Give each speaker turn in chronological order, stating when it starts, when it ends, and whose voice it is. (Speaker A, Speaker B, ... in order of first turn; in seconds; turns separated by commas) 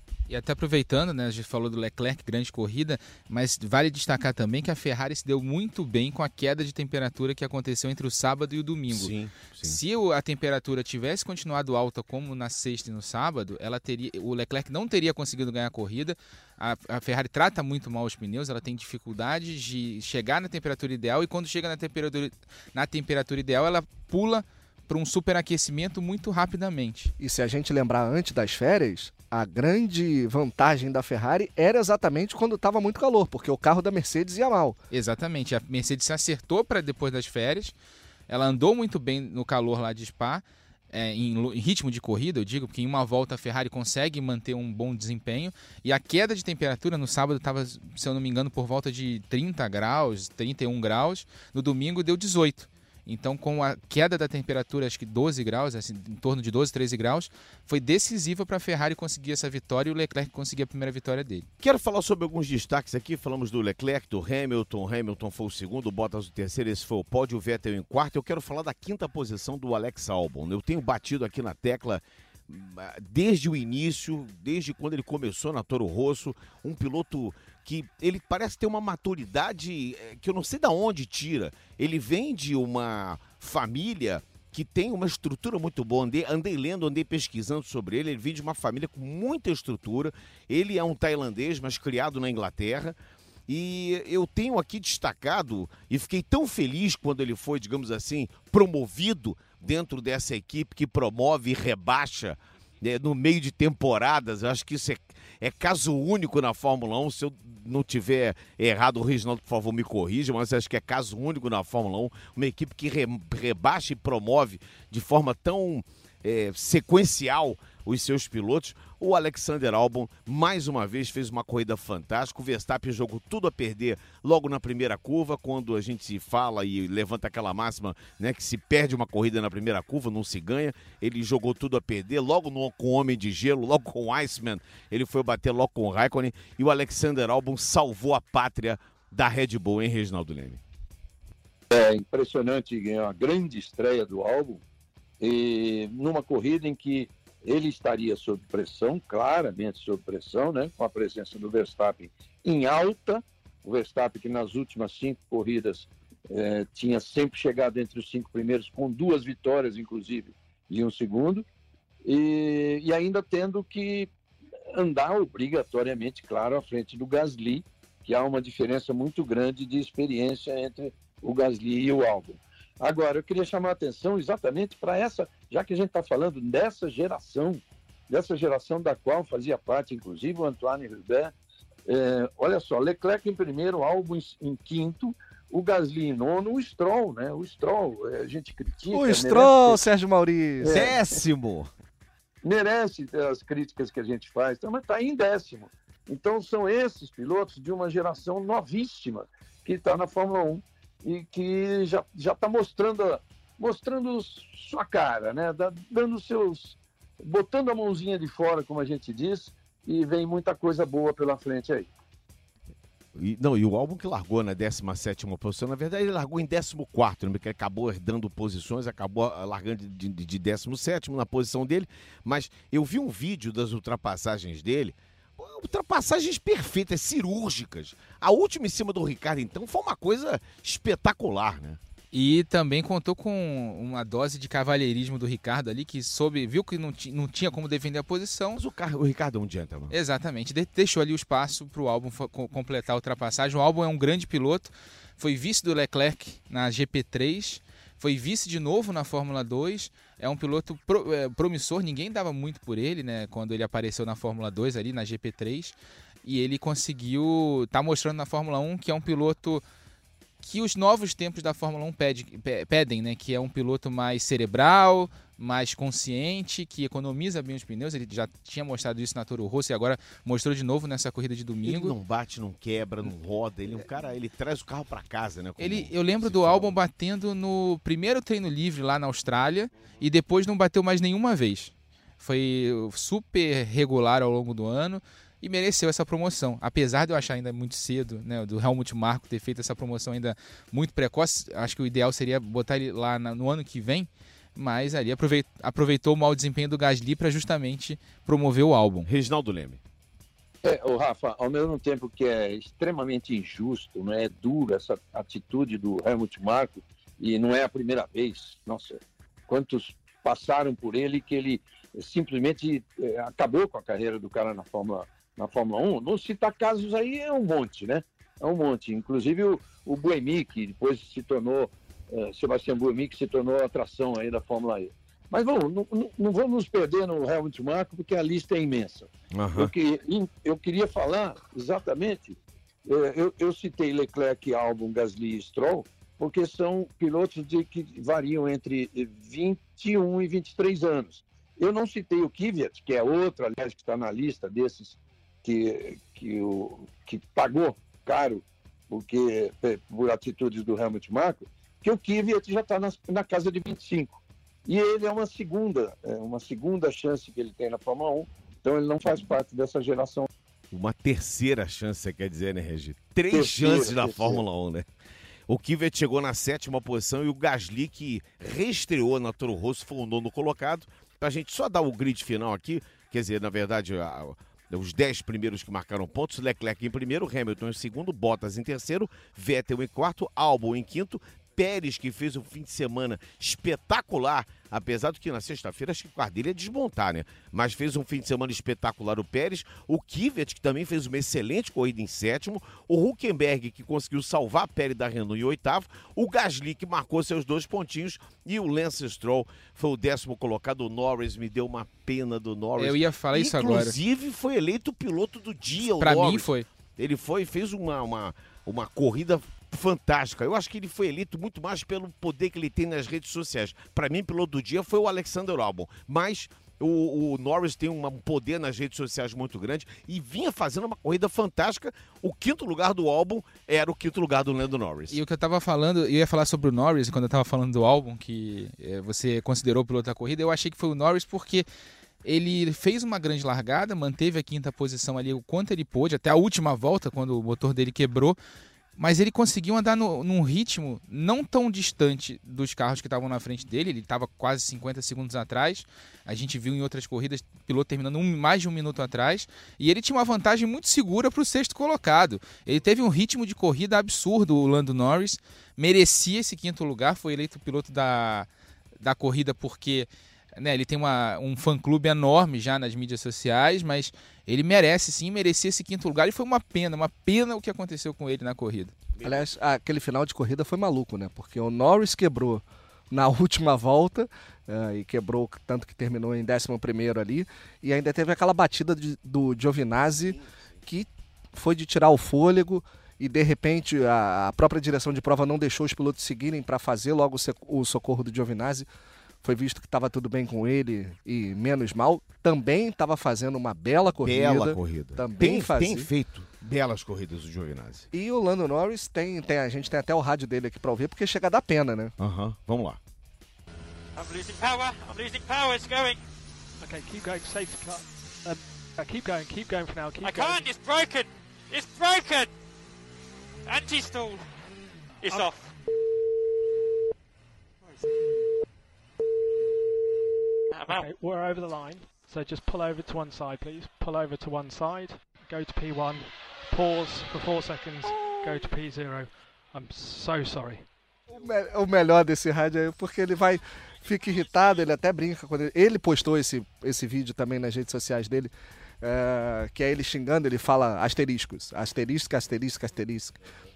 Speaker A: 0.3-27.1, Speaker B: 8.9-9.8, Speaker C: 27.2-34.8, Speaker A: 34.9-37.7, Speaker A: 38.3-61.5, Speaker B: 61.6-93.0, Speaker B: 93.5-140.6, Speaker D: 141.7-144.6, Speaker D: 145.2-161.4, Speaker D: 162.1-164.1, Speaker D: 164.7-181.3, Speaker D: 181.9-189.8, Speaker C: 188.9-190.9, Speaker D: 190.6-191.0, Speaker B: 190.7-191.7, Speaker D: 192.4-211.9, Speaker B: 213.2-231.8, Speaker A: 232.1-238.6, Speaker B: 238.6-239.9, Speaker A: 239.9-259.6, Speaker A: 260.4-271.9, Speaker B: 271.6-276.8, Speaker A: 275.6-299.1, Speaker B: 299.1-299.8, Speaker D: 300.6-360.3, Speaker B: 329.3-329.7, Speaker B: 360.7-364.9, Speaker D: 363.3-364.4, Speaker B: 365.5-425.2, Speaker A: 402.8-404.0, Speaker A: 406.0-406.6, Speaker A: 425.1-431.6, Speaker A: 432.2-438.4, Speaker A: 439.0-458.5, Speaker A: 459.0-468.9, Speaker B: 469.1-469.5, Speaker C: 469.2-488.9, Speaker C: 489.4-496.1, Speaker B: 494.2-498.1, Speaker C: 498.1-502.1, Speaker B: 502.2-503.0, Speaker E: 504.1-506.2, Speaker F: 506.8-510.7, Speaker E: 510.2-512.5, Speaker E: 513.6-514.4, Speaker E: 515.2-515.6, Speaker E: 520.7-521.1, Speaker F: 520.9-530.9, Speaker C: 531.3-543.4